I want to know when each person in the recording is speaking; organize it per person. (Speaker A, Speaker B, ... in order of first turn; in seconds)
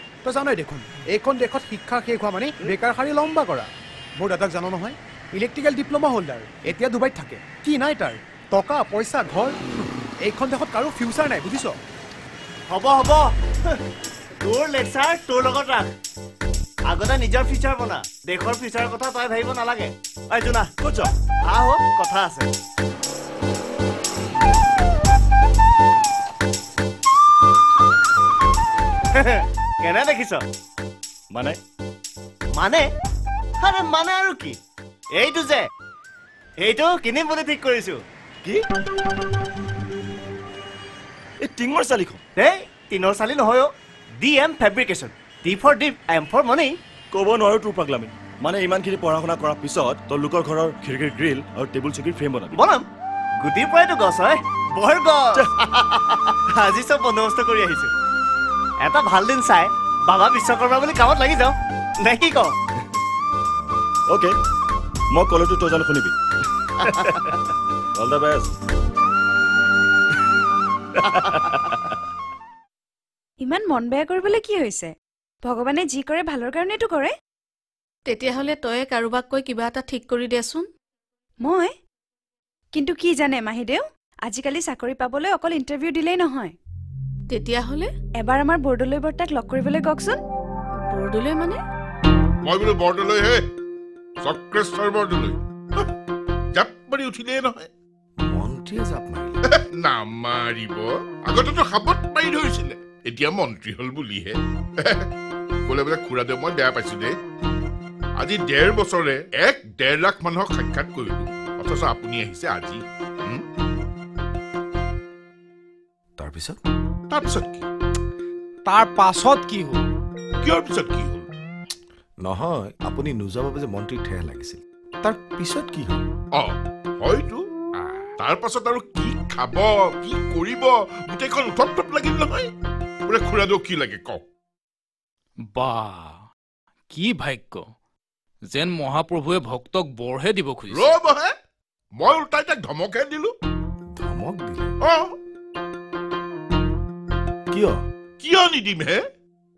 Speaker A: 0.2-11.8
Speaker B: 12.7-13.8, 14.4-15.9, 16.9-20.7, 21.5-22.5, 29.1-30.4, 32.6-32.9, 33.6-34.6, 35.2-35.7, 36.6-38.0, 42.4-46.8, 52.5-52.9, 53.4-57.9, 58.8-62.5
Speaker C: 20.8-21.1, 41.4-42.2, 47.1-52.6, 65.1-66.1, 66.8-67.4, 68.0-68.5, 71.1-71.7
Speaker D: 73.4-77.1, 81.4-81.7, 82.8-86.5, 88.2-90.2
Speaker E: 78.1-80.7, 87.3-87.9, 90.9-91.6
Speaker F: 92.5-93.5, 94.2-95.9, 96.5-97.7, 99.6-105.1, 105.7-107.1, 108.2-113.5, 117.1-117.6, 120.4-121.3, 126.3-132.5, 133.1-134.2, 140.7-141.3, 142.0-143.3, 144.8-145.1, 148.2-149.0
Speaker G: 98.2-99.4, 116.2-116.6, 122.2-126.0, 143.9-144.7, 147.5-147.8
Speaker H: 118.7-119.8, 135.5-136.2, 136.9-137.7, 138.5-140.9